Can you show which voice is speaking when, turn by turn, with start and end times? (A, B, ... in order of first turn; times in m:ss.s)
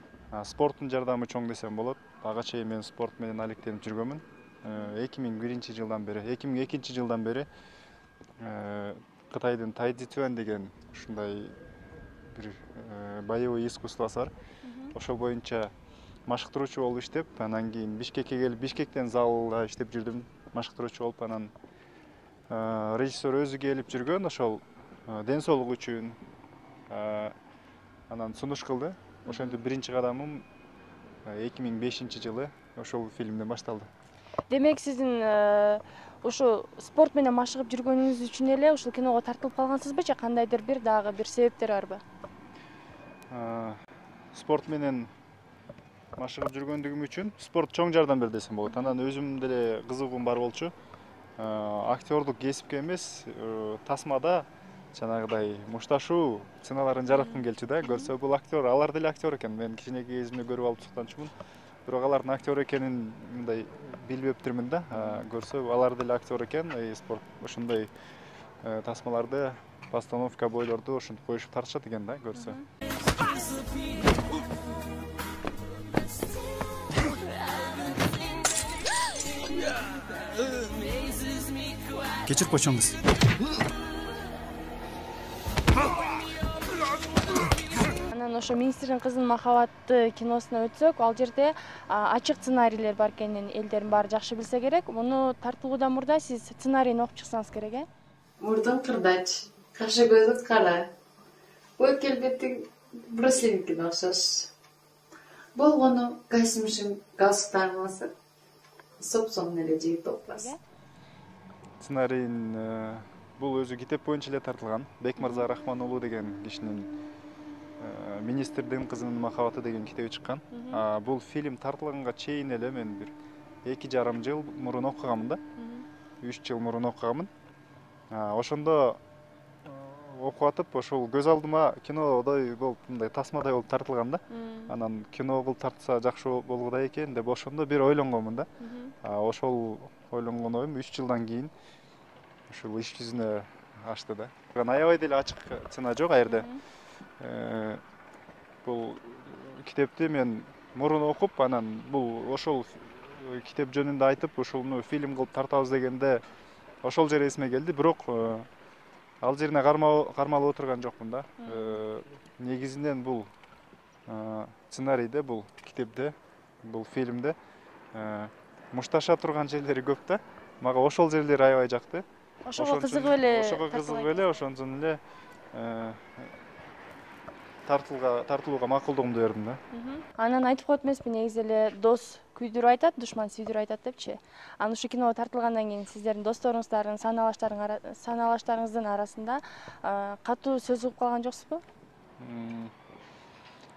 0:00.3-0:07.5 A
0:08.4-0:11.6 A
0:12.2-0:14.3 A
0:14.6-0:15.0 B
0:15.0-0:15.7 A
0:16.3-0:21.5 A
0:22.5-0:26.2 A
0:26.9-0:27.3 A
0:28.1-0:30.4 A
0:29.3-0:29.6 B
0:31.3-0:33.9 A
0:34.5-0:42.0 B
0:43.3-0:43.8 A
0:44.3-0:45.1 A
0:46.2-0:50.7 A
0:48.7-0:49.0 B
0:51.4-1:01.3 A
0:57.1-0:58.1 B
1:01.9-1:07.9 A
1:05.0-1:05.2 B
1:08.6-1:12.6 A
1:12.4-1:12.7 B
1:22.2-1:23.0 A
1:28.1-1:37.9 B
1:38.4-1:40.9 C
1:41.8-1:44.5 C
1:45.6-1:48.1 C
1:49.0-1:50.5 C
1:50.3-1:50.6 B
1:51.8-1:56.9 A
1:55.2-1:55.5 B
1:57.8-2:03.1 A
2:00.5-2:00.8 B
2:03.6-2:05.4 A
2:05.6-2:05.8 B
2:06.2-2:07.3 A
2:08.1-2:09.0 A
2:09.6-2:18.5 A
2:14.3-2:14.7 B
2:18.6-2:18.9 B
2:19.0-2:21.5 A
2:22.5-2:26.5 A
2:26.2-2:26.6 B
2:27.2-2:27.8 A
2:28.6-2:36.2 A
2:36.8-2:38.5 A
2:39.2-2:43.3 A
2:41.4-2:41.8 B
2:44.1-2:47.4 A
2:47.9-2:52.0 A
2:52.4-2:54.3 B
2:52.6-2:55.0 A
2:55.5-2:56.3 A
2:57.7-2:59.6 A
2:59.7-3:11.6 B
3:12.2-3:12.7 A